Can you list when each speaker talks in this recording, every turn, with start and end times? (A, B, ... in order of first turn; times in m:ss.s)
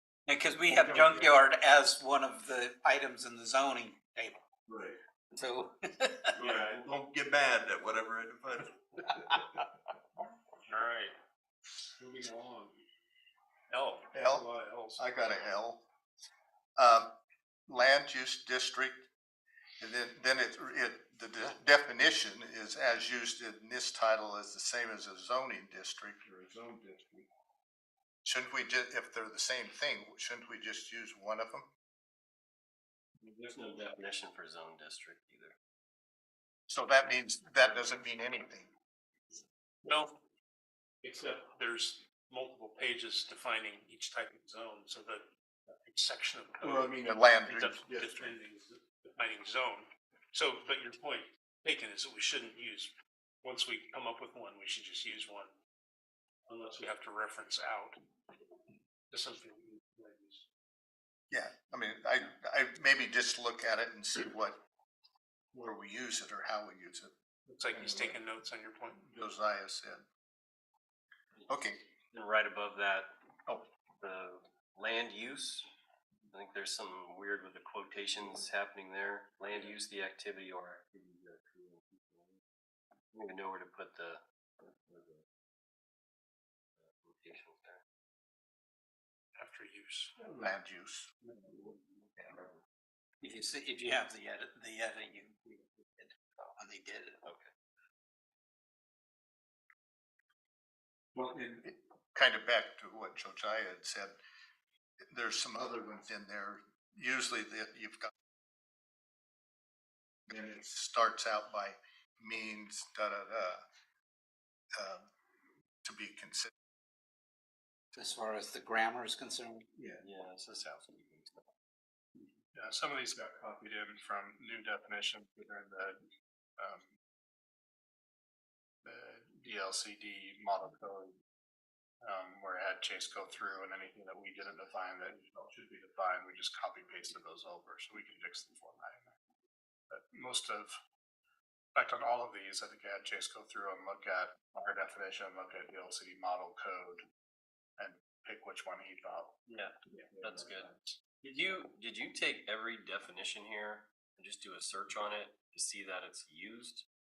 0:00.2-0:04.4 A
0:00.9-0:01.2 B
0:04.7-0:05.0 B
0:05.3-0:06.4 A
0:06.4-0:09.4 B
0:06.4-0:06.8 C
0:10.6-0:11.1 C
0:12.0-0:12.7 C
0:13.7-0:15.0 C
0:14.1-0:15.8 D
0:16.8-0:17.1 D
0:17.7-0:19.1 D
0:19.8-0:26.6 D
0:28.2-0:31.7 D
0:33.2-0:35.5 E
0:36.7-0:38.7 D
0:39.8-0:40.1 C
0:41.0-0:45.2 C
0:45.8-0:52.9 C
0:46.6-0:48.4 D
0:53.4-0:55.5 C
0:56.5-0:58.0 C
0:59.1-1:00.4 C
1:01.3-1:04.6 D
1:05.5-1:07.1 D
1:07.5-1:09.0 C
1:07.7-1:08.2 D
1:09.0-1:10.0 D
1:11.5-1:11.8 D
1:12.1-1:13.1 E
1:14.0-1:15.7 E
1:16.3-1:22.3 E
1:23.1-1:24.2 E
1:26.8-1:27.8 E
1:29.4-1:30.1 C
1:30.2-1:31.3 D
1:33.2-1:37.2 A
1:37.2-1:37.5 E
1:41.1-1:44.2 D
1:45.1-1:48.1 D
1:50.3-1:53.6 D
1:54.8-1:55.0 D
1:55.8-1:56.5 D
1:57.9-1:59.6 A
2:00.0-2:01.4 E
2:02.5-2:06.0 F
2:06.6-2:06.8 F
2:08.8-2:11.2 F
2:12.0-2:19.1 F
2:19.9-2:20.8 F
2:21.7-2:27.0 F
2:27.8-2:29.3 F
2:29.5-2:36.8 E